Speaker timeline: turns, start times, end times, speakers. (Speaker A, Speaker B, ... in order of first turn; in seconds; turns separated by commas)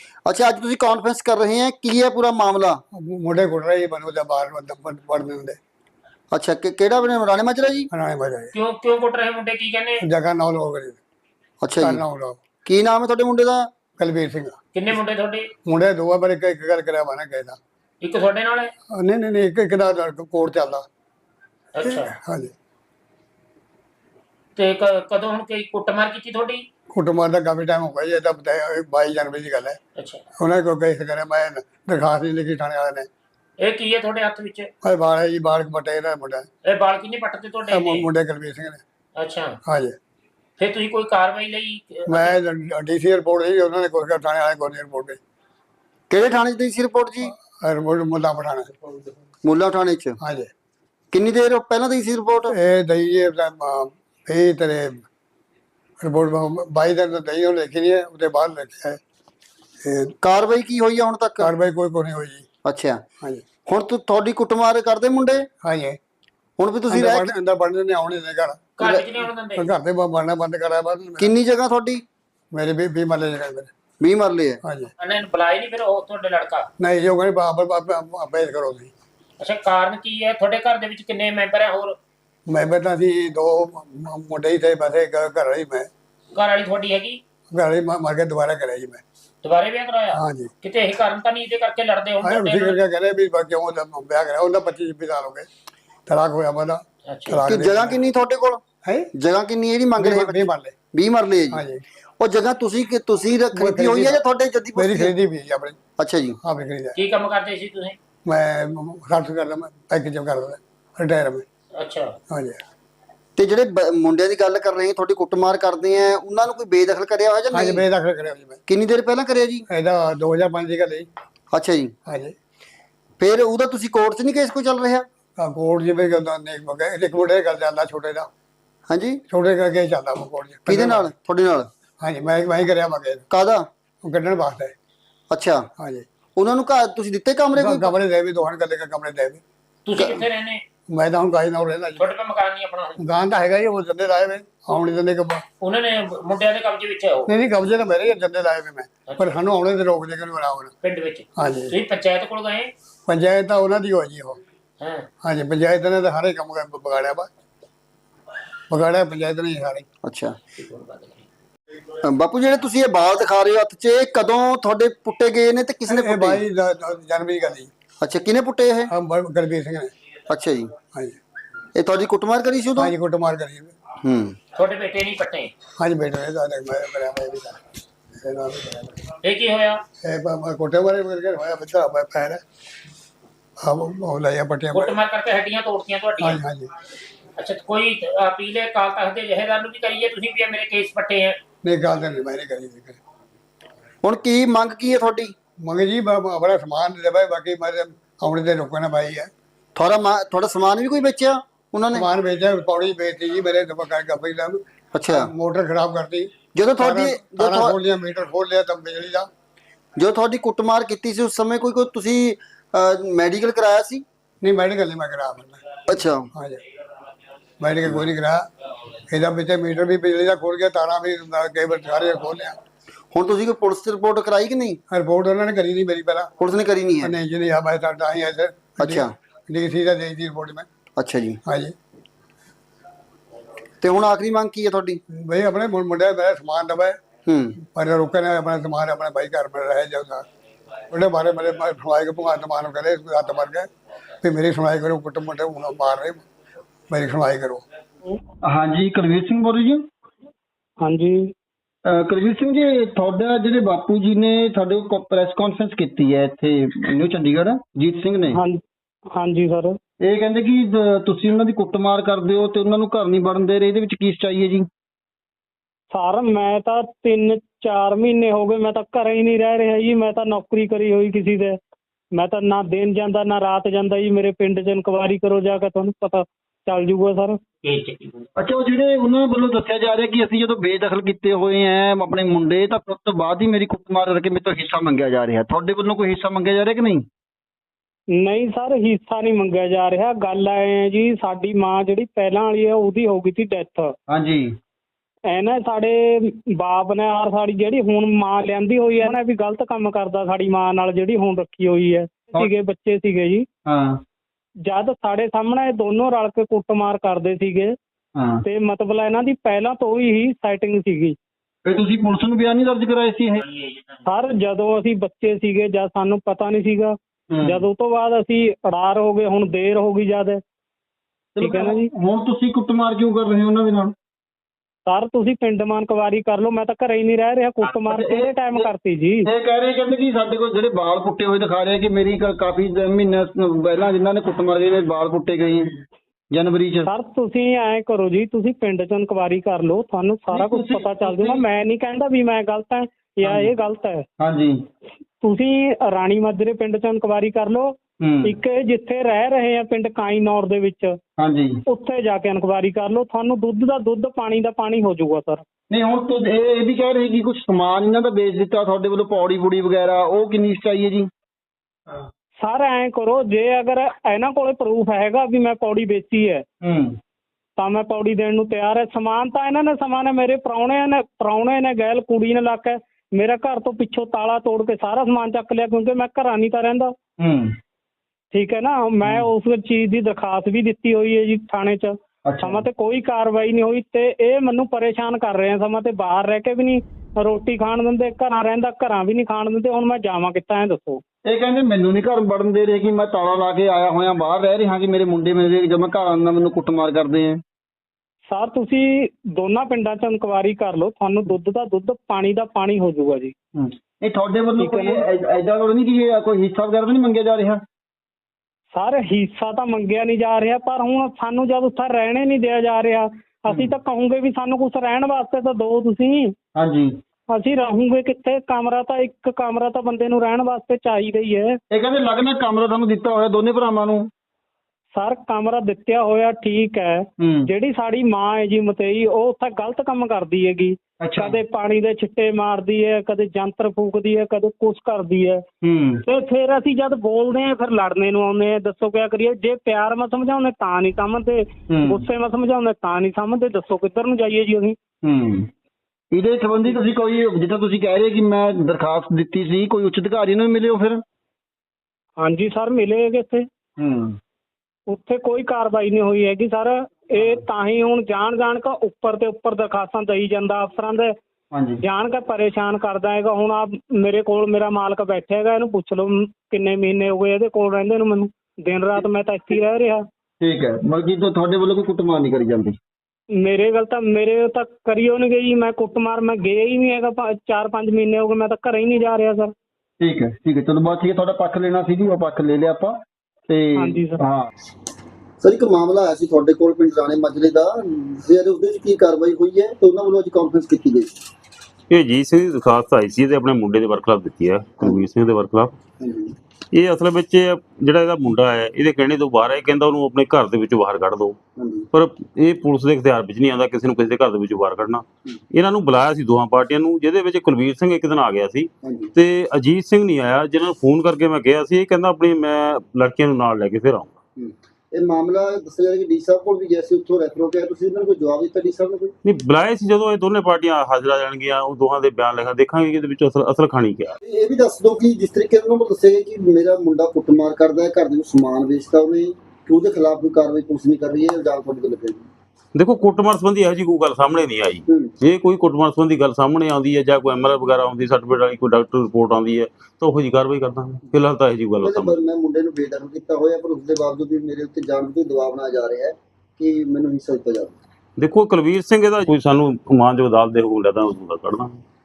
Speaker A: 0.3-2.8, Speaker B: 2.9-5.6, Speaker A: 6.3-7.9, Speaker B: 7.9-8.5, Speaker C: 8.5-10.0, Speaker B: 10.0-11.0, Speaker A: 11.6-12.0, Speaker B: 11.8-12.4, Speaker A: 12.6-13.7, Speaker B: 14.0-14.6, Speaker C: 14.7-15.5, Speaker B: 15.7-17.6, Speaker C: 18.0-18.7, Speaker B: 18.9-20.8, Speaker C: 21.7-22.1, Speaker B: 21.8-22.5, Speaker C: 24.6-26.6, Speaker B: 26.9-29.8, Speaker C: 29.9-30.2, Speaker B: 30.4-33.1, Speaker C: 33.6-34.7, Speaker B: 34.8-36.5, Speaker C: 36.6-38.1, Speaker B: 37.7-38.8, Speaker C: 39.2-39.5, Speaker B: 39.6-40.0, Speaker C: 40.6-42.4, Speaker B: 42.1-45.2, Speaker A: 46.1-47.3, Speaker B: 47.2-48.7, Speaker A: 49.4-50.1, Speaker B: 50.2-50.5, Speaker A: 51.1-52.5, Speaker B: 52.5-55.0, Speaker B: 56.0-59.0, Speaker B: 59.8-60.1, Speaker A: 60.2-61.5, Speaker B: 61.4-62.5, Speaker A: 62.6-63.0, Speaker A: 63.6-65.5, Speaker B: 65.6-66.0, Speaker A: 66.6-67.3, Speaker B: 66.9-68.6, Speaker C: 68.8-69.7, Speaker B: 69.5-71.3, Speaker A: 71.2-72.0, Speaker B: 72.5-73.7, Speaker A: 74.0-74.6, Speaker B: 74.6-74.9, Speaker C: 75.0-76.7, Speaker B: 76.8-78.9, Speaker C: 79.4-82.0, Speaker B: 82.5-85.9, Speaker C: 86.3-87.2, Speaker B: 87.5-89.0, Speaker C: 89.4-92.8, Speaker B: 90.1-90.5, Speaker B: 92.2-95.5, Speaker B: 96.1-98.0, Speaker C: 97.1-97.4, Speaker A: 97.5-98.6, Speaker B: 98.8-99.1, Speaker A: 99.2-101.6, Speaker B: 100.0-100.7, Speaker B: 101.5-101.8, Speaker A: 102.2-105.1, Speaker B: 103.5-104.2, Speaker B: 104.8-105.8, Speaker A: 106.0-106.4, Speaker B: 106.4-107.0, Speaker C: 107.0-108.0, Speaker B: 108.2-111.4, Speaker C: 111.8-112.1, Speaker B: 112.3-112.6, Speaker A: 113.3-117.8, Speaker B: 117.5-118.6, Speaker A: 118.7-119.6, Speaker B: 119.7-121.1, Speaker A: 121.5-121.9, Speaker B: 122.0-122.3, Speaker A: 123.2-125.0, Speaker B: 125.4-128.3, Speaker A: 128.9-129.2, Speaker B: 129.3-131.1, Speaker A: 130.7-131.7, Speaker B: 132.0-133.2, Speaker A: 133.3-133.7, Speaker B: 134.0-134.7, Speaker A: 135.3-135.7, Speaker B: 135.8-136.1, Speaker A: 136.4-137.9, Speaker B: 137.6-139.4, Speaker C: 139.8-140.6, Speaker A: 140.0-140.2, Speaker B: 140.9-142.1, Speaker C: 142.0-143.0, Speaker B: 143.0-145.4, Speaker C: 145.6-147.3, Speaker B: 147.3-150.7, Speaker C: 150.8-152.7, Speaker B: 151.4-151.7, Speaker B: 153.1-154.4, Speaker C: 154.8-155.1, Speaker B: 155.2-157.3, Speaker B: 158.7-159.9, Speaker A: 160.0-160.4, Speaker C: 160.6-161.2, Speaker A: 162.0-166.4, Speaker B: 165.9-167.7, Speaker A: 168.0-168.9, Speaker B: 168.9-169.9, Speaker A: 170.3-170.7, Speaker A: 171.7-172.9, Speaker B: 172.8-173.8, Speaker A: 174.0-174.3, Speaker C: 174.5-175.5, Speaker B: 175.8-177.6, Speaker B: 178.2-179.0, Speaker C: 179.2-179.8, Speaker B: 180.0-182.4, Speaker B: 183.6-185.0, Speaker C: 184.7-186.4, Speaker B: 186.2-186.7, Speaker C: 187.4-191.4, Speaker B: 191.6-193.0, Speaker A: 194.0-195.3, Speaker B: 195.6-199.3, Speaker A: 199.8-202.1, Speaker B: 201.9-209.3, Speaker A: 204.9-205.3, Speaker A: 206.5-207.8, Speaker A: 210.0-214.0, Speaker B: 214.4-215.8, Speaker A: 215.9-216.3, Speaker B: 216.3-216.6, Speaker B: 217.6-218.4, Speaker B: 219.1-222.6, Speaker A: 223.1-224.8, Speaker B: 224.9-226.3, Speaker A: 226.4-227.1, Speaker B: 227.0-230.7, Speaker A: 228.8-229.1, Speaker A: 231.0-231.4, Speaker B: 231.4-231.7, Speaker A: 233.8-235.0, Speaker B: 235.1-237.0, Speaker A: 237.3-237.6, Speaker B: 237.6-240.2, Speaker B: 240.9-243.7, Speaker B: 244.2-246.2, Speaker B: 246.9-247.6, Speaker D: 248.4-249.8, Speaker E: 250.8-251.3, Speaker D: 251.8-258.4, Speaker E: 258.3-258.6, Speaker E: 259.1-259.8, Speaker D: 260.0-264.7, Speaker E: 265.9-271.6, Speaker E: 272.1-277.4, Speaker C: 277.6-278.3, Speaker D: 278.4-287.1, Speaker E: 288.2-293.9, Speaker D: 294.1-294.6, Speaker E: 295.3-303.5, Speaker D: 303.6-304.0, Speaker E: 304.6-307.7, Speaker D: 308.1-308.4, Speaker E: 308.4-311.2, Speaker D: 311.6-313.4, Speaker C: 313.4-314.0, Speaker E: 314.1-320.4, Speaker D: 317.3-317.6, Speaker D: 321.4-323.9, Speaker E: 321.4-321.9, Speaker E: 324.9-329.3, Speaker D: 327.6-328.7, Speaker D: 329.2-335.7, Speaker D: 336.3-336.9, Speaker E: 336.9-344.1, Speaker D: 340.3-341.4, Speaker D: 343.2-343.5, Speaker D: 344.2-344.6, Speaker E: 345.2-351.0, Speaker D: 348.0-348.4, Speaker D: 351.2-351.6, Speaker E: 351.7-355.4, Speaker D: 355.7-361.1, Speaker E: 362.4-366.4, Speaker D: 366.6-367.0, Speaker E: 367.6-376.9, Speaker D: 377.2-377.6, Speaker E: 378.3-391.0, Speaker D: 379.0-379.3, Speaker D: 382.2-382.6, Speaker D: 391.2-397.4, Speaker E: 398.3-403.3, Speaker D: 403.6-407.6, Speaker E: 404.6-405.0, Speaker E: 408.7-416.3, Speaker D: 413.5-413.8, Speaker D: 416.6-416.9, Speaker E: 417.3-421.6, Speaker D: 421.7-424.1, Speaker E: 424.9-435.4, Speaker D: 427.2-427.5, Speaker D: 431.0-431.4, Speaker D: 435.6-436.0, Speaker E: 436.1-444.8, Speaker D: 441.7-442.1, Speaker D: 445.0-445.5, Speaker D: 446.1-451.0, Speaker E: 452.2-453.4, Speaker D: 453.8-454.2, Speaker E: 454.9-461.1, Speaker D: 457.2-457.4, Speaker D: 461.5-461.8, Speaker E: 461.8-470.0, Speaker D: 470.4-472.8, Speaker E: 473.4-479.5, Speaker D: 480.0-484.5, Speaker E: 483.8-484.2, Speaker A: 485.4-491.1, Speaker F: 491.9-495.8, Speaker A: 496.0-496.3, Speaker F: 496.7-501.4, Speaker A: 501.6-501.9, Speaker F: 501.9-514.2, Speaker A: 508.8-509.1, Speaker A: 514.4-519.1, Speaker F: 519.2-524.1, Speaker A: 524.2-532.2, Speaker F: 532.7-542.1, Speaker A: 541.8-547.8, Speaker F: 548.2-551.7